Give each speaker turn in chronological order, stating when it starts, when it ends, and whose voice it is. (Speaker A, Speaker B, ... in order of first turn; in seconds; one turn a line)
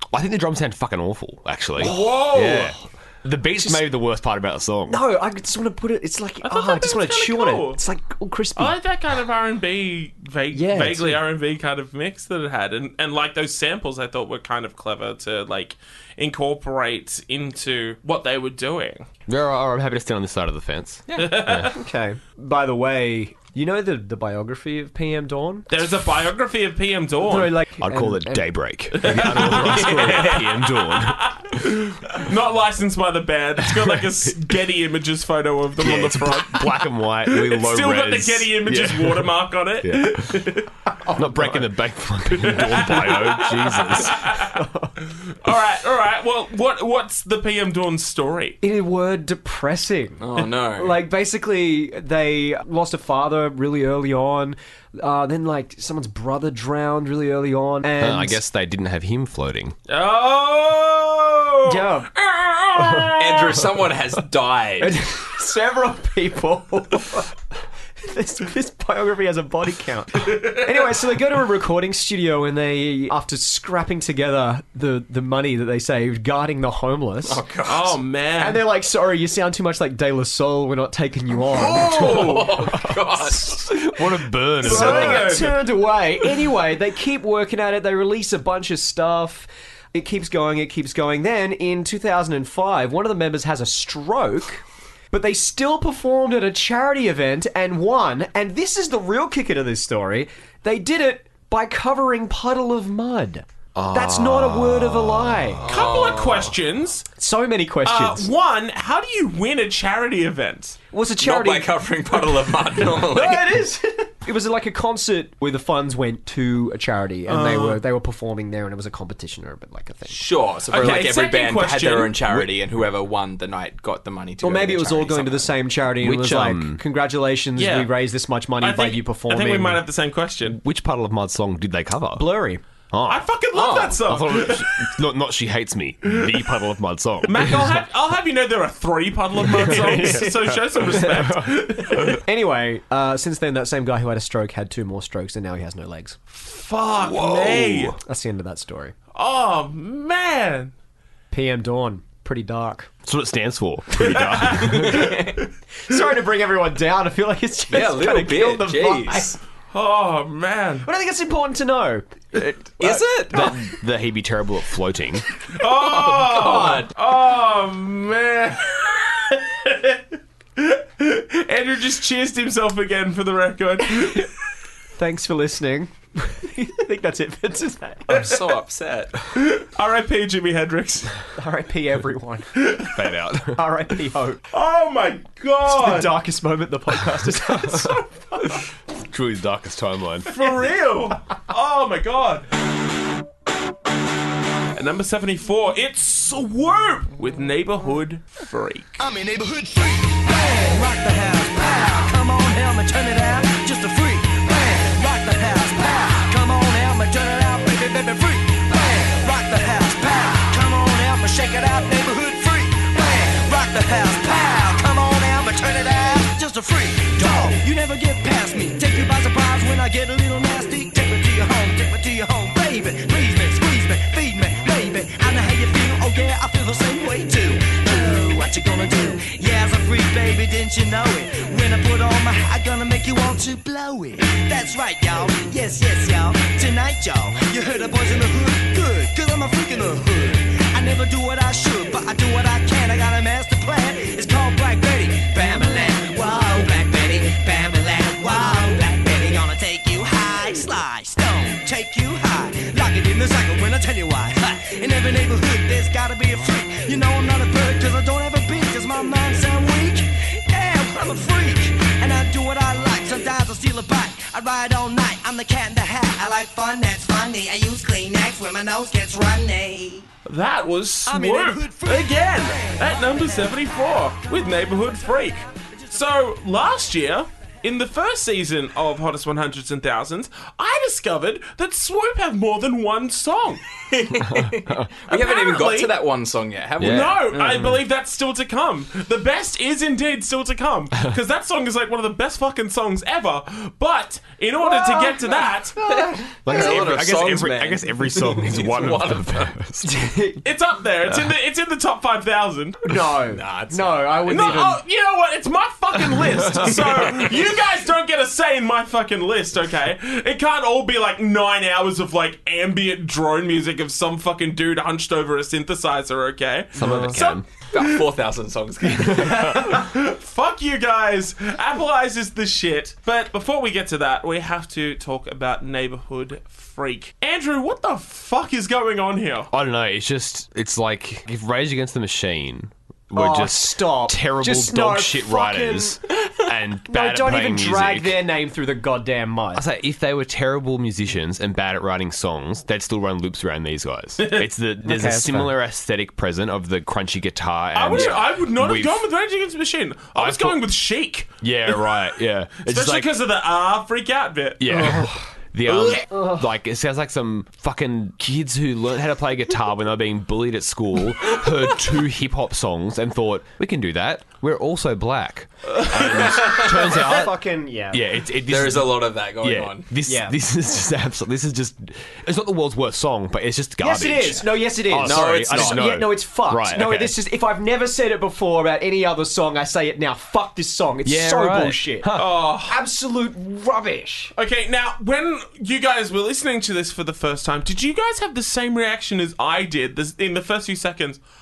Speaker A: 0.1-5.0
Speaker B: 1.8-2.7
Speaker C: 1.9-2.6
Speaker C: 3.6-3.9
Speaker C: 4.9-8.8
Speaker B: 6.4-7.8
Speaker B: 8.6-19.1
Speaker C: 10.5-11.2
Speaker A: 19.3-21.7
Speaker B: 21.2-21.7
Speaker C: 21.7-25.7
Speaker B: 25.7-27.5
Speaker C: 27.2-28.5
Speaker A: 27.8-31.6
Speaker B: 28.9-36.7
Speaker C: 29.1-29.3
Speaker D: 29.8-30.4
Speaker A: 33.6-34.3
Speaker A: 35.8-40.4
Speaker B: 37.3-40.7
Speaker C: 41.0-41.6
Speaker A: 41.1-44.2
Speaker B: 42.4-44.5
Speaker C: 44.4-44.9
Speaker B: 45.1-48.6
Speaker C: 48.6-58.4
Speaker D: 50.2-51.0
Speaker A: 57.9-59.8
Speaker B: 59.9-63.6
Speaker C: 61.6-62.1
Speaker D: 63.1-65.0
Speaker C: 64.8-67.4
Speaker C: 68.0-77.4
Speaker D: 77.2-78.0
Speaker B: 77.6-78.6
Speaker C: 78.4-105.7
Speaker D: 81.6-83.6
Speaker B: 81.7-82.5
Speaker A: 83.6-85.5
Speaker B: 84.6-85.5
Speaker A: 103.7-105.7
Speaker D: 105.6-106.5
Speaker B: 105.7-107.0
Speaker C: 107.2-108.3
Speaker B: 107.8-110.8
Speaker C: 110.9-120.2
Speaker D: 111.2-113.6
Speaker B: 117.3-117.8
Speaker D: 120.1-125.7
Speaker B: 120.7-122.1
Speaker C: 120.8-121.1
Speaker A: 122.2-122.5
Speaker C: 124.4-129.8
Speaker A: 126.0-126.8
Speaker B: 127.6-127.9
Speaker B: 128.6-130.6
Speaker A: 130.4-132.3
Speaker C: 132.1-132.6
Speaker A: 132.9-137.8
Speaker B: 133.1-134.9
Speaker D: 133.5-134.0
Speaker B: 137.3-142.2
Speaker A: 139.5-142.2
Speaker C: 139.6-140.4
Speaker C: 140.9-141.3
Speaker C: 142.1-146.2
Speaker B: 146.3-147.9
Speaker A: 147.0-148.0
Speaker C: 148.0-148.9
Speaker B: 149.1-150.7
Speaker C: 151.3-152.9
Speaker A: 153.0-155.1
Speaker B: 154.0-155.2
Speaker D: 154.6-155.4
Speaker C: 155.8-159.3
Speaker D: 157.7-159.4
Speaker B: 159.7-160.9
Speaker C: 160.8-163.5
Speaker D: 162.8-163.6
Speaker A: 163.3-165.2
Speaker B: 165.5-174.3
Speaker D: 165.6-166.9
Speaker C: 174.9-178.2
Speaker D: 178.1-179.2
Speaker B: 179.3-181.1
Speaker C: 181.4-182.5
Speaker B: 182.6-183.0
Speaker A: 182.9-183.6
Speaker C: 183.5-184.4
Speaker B: 184.5-186.1
Speaker C: 185.7-188.5
Speaker A: 187.2-188.0
Speaker A: 189.1-190.4
Speaker B: 190.3-192.4
Speaker B: 194.7-199.0
Speaker E: 199.0-270.1
Speaker B: 270.2-283.6
Speaker E: 271.1-273.7
Speaker D: 283.9-287.7
Speaker B: 285.1-285.9
Speaker A: 286.8-287.8
Speaker B: 286.8-295.8
Speaker C: 294.6-296.8
Speaker D: 295.9-299.5
Speaker A: 296.4-300.1
Speaker C: 299.8-300.4
Speaker B: 300.4-302.9
Speaker C: 302.9-304.8
Speaker D: 303.3-304.1
Speaker B: 304.2-318.0
Speaker A: 306.1-306.8
Speaker A: 316.7-317.4
Speaker C: 316.8-317.2
Speaker D: 317.7-319.6
Speaker B: 318.9-329.5
Speaker A: 329.5-338.2
Speaker C: 333.1-336.0
Speaker C: 336.9-339.6
Speaker A: 339.5-349.1
Speaker B: 344.2-344.4
Speaker C: 344.8-345.5
Speaker B: 347.7-352.0
Speaker A: 350.1-350.7
Speaker A: 351.4-353.2
Speaker B: 352.6-354.9
Speaker A: 354.6-367.3
Speaker C: 354.7-355.2
Speaker C: 355.9-356.4
Speaker B: 365.7-366.1
Speaker D: 366.1-367.0
Speaker C: 366.6-368.0
Speaker A: 367.9-377.2
Speaker D: 368.5-369.9
Speaker C: 370.1-370.4
Speaker C: 373.8-384.3
Speaker D: 374.2-376.0
Speaker A: 381.0-382.3
Speaker B: 382.1-382.8
Speaker B: 384.4-391.2